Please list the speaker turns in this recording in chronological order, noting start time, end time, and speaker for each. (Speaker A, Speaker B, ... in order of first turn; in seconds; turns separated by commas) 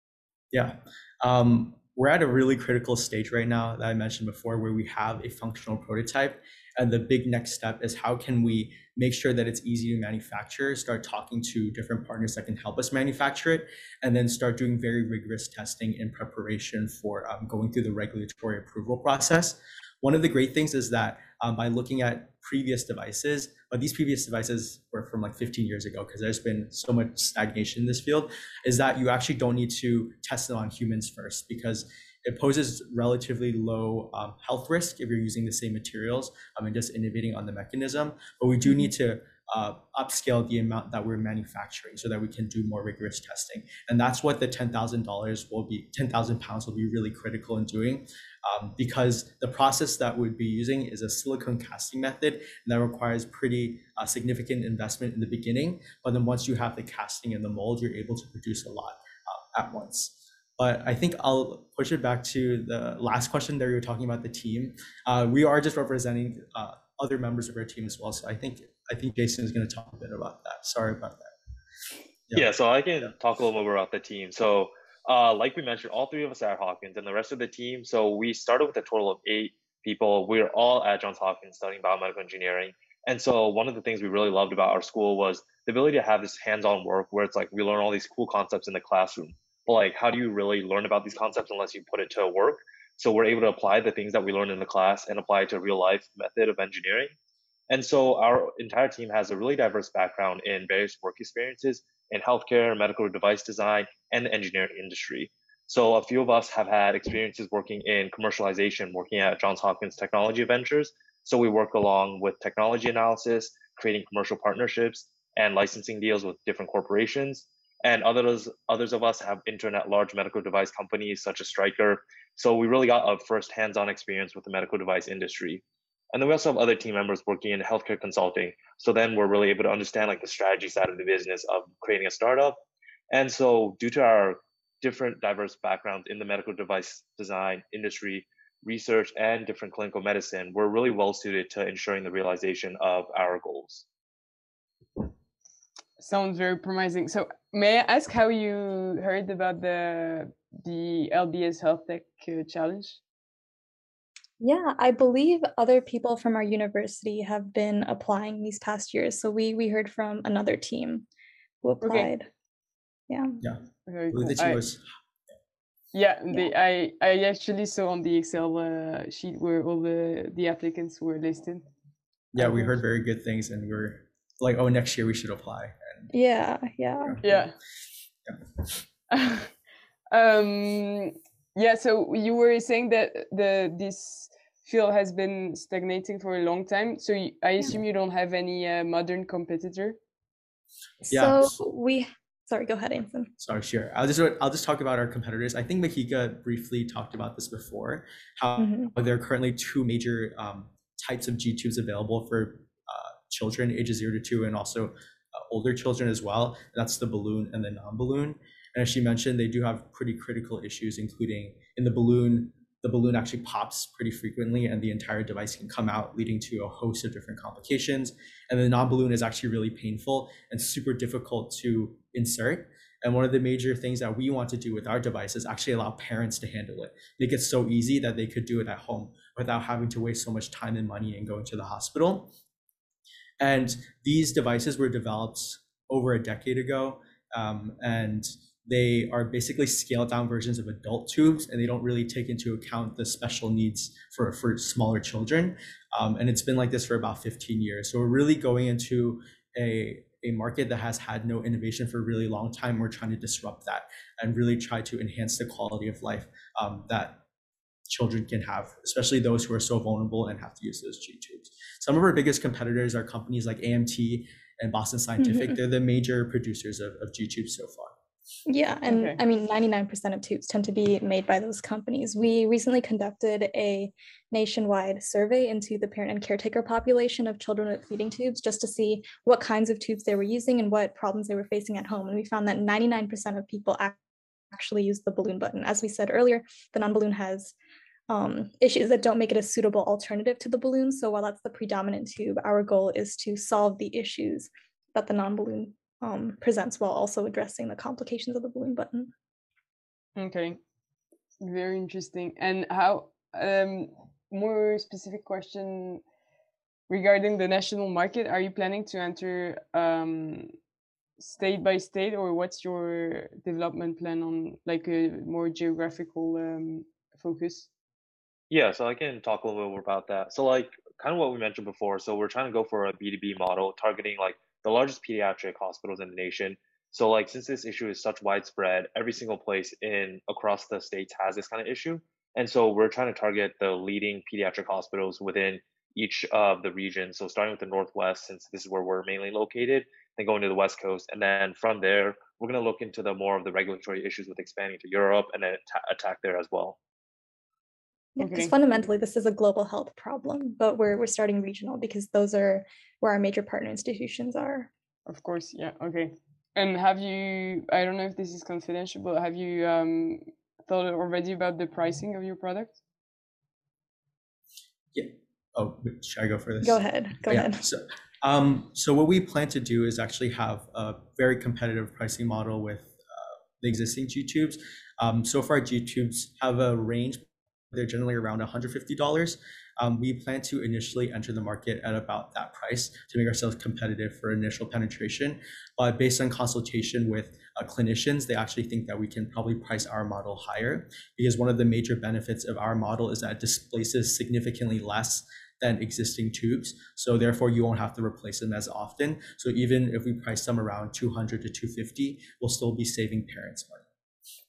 Speaker A: 0.5-71.3, Speaker B: 72.3-97.1, Speaker B: 97.7-132.6, Speaker B: 133.1-143.8, Speaker C: 146.0-153.0, Speaker D: 154.4-161.1, Speaker D: 161.6-162.3, Speaker C: 161.8-162.1, Speaker D: 163.1-163.4, Speaker A: 163.4-164.8, Speaker C: 163.8-164.6, Speaker C: 165.9-171.6, Speaker A: 172.3-176.1, Speaker C: 172.4-172.7, Speaker D: 176.1-177.2, Speaker A: 177.0-177.4, Speaker C: 177.2-177.5, Speaker C: 179.1-179.5, Speaker C: 180.1-190.0, Speaker D: 191.0-193.3, Speaker A: 191.1-191.5, Speaker A: 193.4-232.3, Speaker D: 198.6-198.9, Speaker A: 233.4-257.2, Speaker A: 257.9-267.9, Speaker D: 265.2-265.5, Speaker D: 268.5-284.0, Speaker C: 268.8-269.2, Speaker D: 284.5-287.5, Speaker D: 288.1-299.1, Speaker C: 300.1-300.6, Speaker C: 301.4-306.0, Speaker C: 306.9-310.5, Speaker C: 311.2-317.7, Speaker B: 318.5-346.8, Speaker D: 348.1-354.7, Speaker C: 348.2-348.6, Speaker C: 355.1-362.8, Speaker A: 364.9-403.8, Speaker D: 366.6-367.6